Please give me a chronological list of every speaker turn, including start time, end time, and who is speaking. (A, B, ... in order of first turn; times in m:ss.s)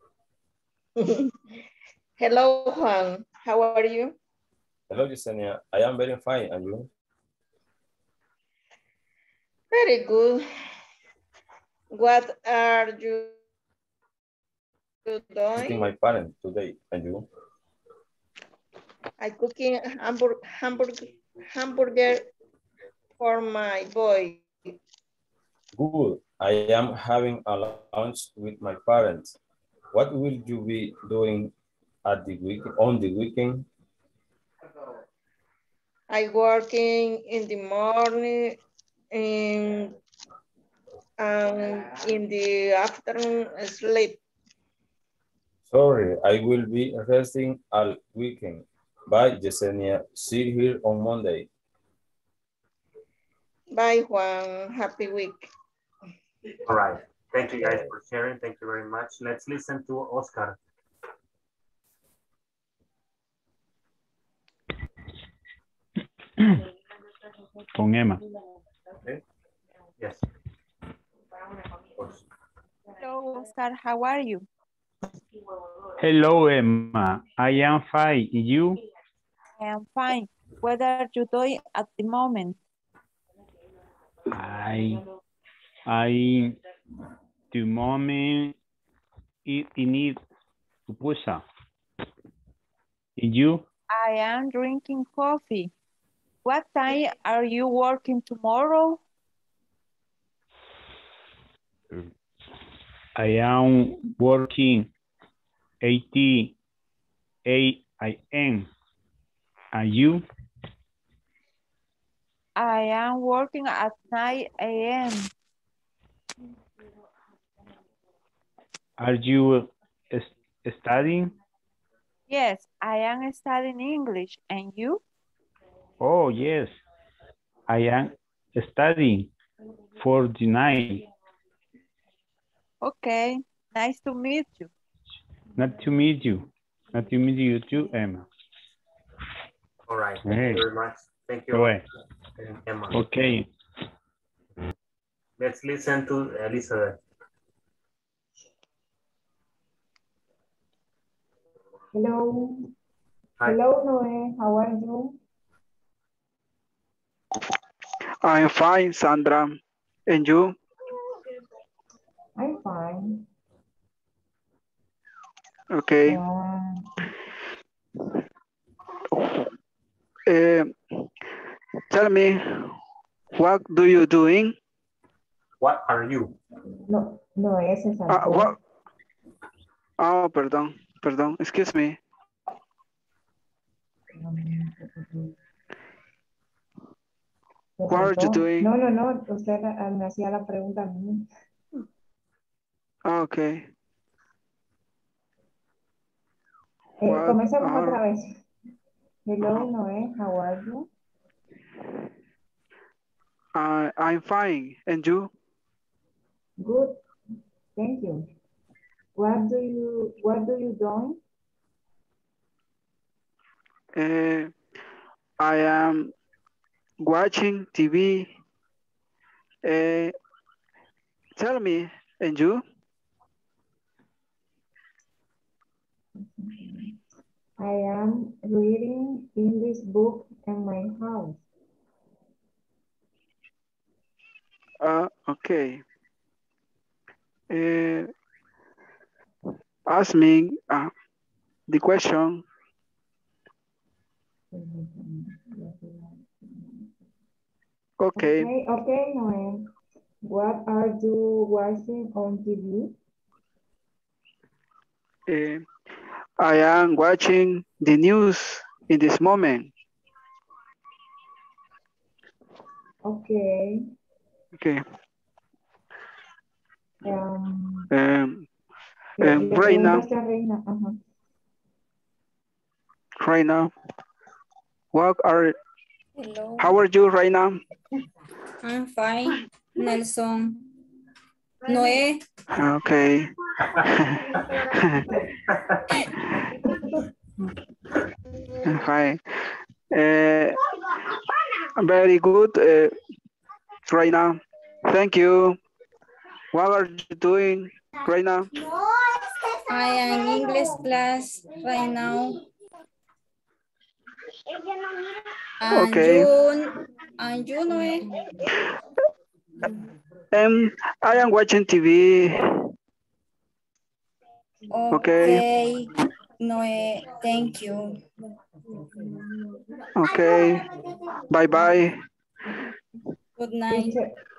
0:01.0-0:01.3 A
0:02.2-0:04.1 A
0:04.9-0:06.9 B
0:09.7-0:10.4 A
0:12.0-0:13.4 A
0:15.0-0:15.8 A
0:15.6-0:17.3 B
0:19.2-0:22.2 A
0:23.2-0:24.5 A
0:25.7-0:29.4 B
0:29.9-0:31.5 B
0:32.0-0:33.7 B
0:36.1-0:38.6 A
0:39.1-0:40.0 A
0:41.2-0:44.2 A
0:45.7-0:51.5 B
0:53.7-0:55.5 A
0:56.6-1:00.6 C
1:07.7-1:08.2 D
1:12.0-1:12.2 C
1:13.0-1:14.4 E
1:16.0-1:18.8 D
1:19.6-1:22.6 E
1:24.3-1:25.0 D
1:25.9-1:26.6 D
1:27.5-1:28.6 D
1:29.4-1:30.2 D
1:30.9-1:31.4 D
1:33.2-1:33.6 D
1:33.9-1:35.7 E
1:36.4-1:39.0 E
1:43.2-1:44.9 D
1:45.8-1:46.6 D
1:47.4-1:48.7 D
1:49.7-1:50.3 D
1:52.6-1:55.3 E
1:59.0-2:01.3 D
2:02.3-2:05.0 E
2:06.0-2:06.8 D
2:07.7-2:09.3 D
2:10.0-2:11.0 D
2:12.8-2:14.7 E
2:15.6-2:18.3 D
2:19.9-2:21.7 C
2:20.2-2:20.6 D
2:21.5-2:21.8 D
2:22.4-2:23.0 C
2:22.9-2:23.5 D
2:25.4-2:27.0 C
2:31.9-2:32.7 F
2:33.4-2:35.2 F
2:38.2-2:40.5 G
2:42.4-2:43.3 F
2:45.7-2:46.2 G
2:46.1-2:46.9 F
2:49.2-2:49.4 G
2:50.3-2:50.7 G
2:51.9-2:52.7 G
2:53.4-2:54.5 G
2:55.6-2:56.4 C
2:56.8-2:58.5 F
2:58.1-2:58.6 G
3:00.0-3:02.0 G
3:04.2-3:05.3 F
3:07.8-3:11.3 F
3:07.9-3:08.7 G
3:13.1-3:13.6 G
3:17.0-3:18.4 F
3:17.0-3:18.0 G
3:19.3-3:20.9 F
3:23.6-3:25.3 G
3:26.6-3:27.0 F
3:27.8-3:28.3 F
3:29.2-3:31.2 F
3:34.0-3:34.5 G
3:35.4-3:36.1 G
3:37.0-3:38.3 G
3:39.6-3:40.1 G
3:41.4-3:42.6 G
3:46.2-3:47.0 F
3:47.6-3:51.4 F
3:54.8-3:55.8 G
3:57.5-3:58.1 G
3:59.9-4:00.9 G
4:01.7-4:02.4 G
4:04.5-4:06.9 F
4:08.0-4:08.5 G
4:08.2-4:09.7 F
4:10.2-4:13.0 F
4:15.3-4:15.6 G
4:16.4-4:19.7 G
4:23.0-4:23.8 F
4:24.6-4:24.8 G
4:27.0-4:27.9 F
4:27.9-4:28.4 G
4:29.2-4:30.1 G
4:29.2-4:31.0 F
4:33.2-4:33.7 G
4:34.9-4:35.5 G
4:36.2-4:36.8 H
4:36.6-4:37.6 G
4:38.6-4:40.6 H
4:41.6-4:42.2 H
4:42.6-4:45.1 G
4:45.5-4:45.8 C
4:46.6-4:47.1 F
4:48.6-4:49.2 G
4:49.9-4:50.6 G
4:51.8-4:52.9 G
4:53.9-4:55.6 G
4:56.5-4:58.5 G
4:59.7-5:02.4 H
5:05.6-5:08.1 H
5:05.7-5:06.3 G
5:10.3-5:12.3 G
5:14.7-5:18.0 H
5:14.9-5:15.4 G
5:20.0-5:20.7 G
5:21.3-5:22.0 G
5:23.4-5:24.0 H
5:23.7-5:24.1 F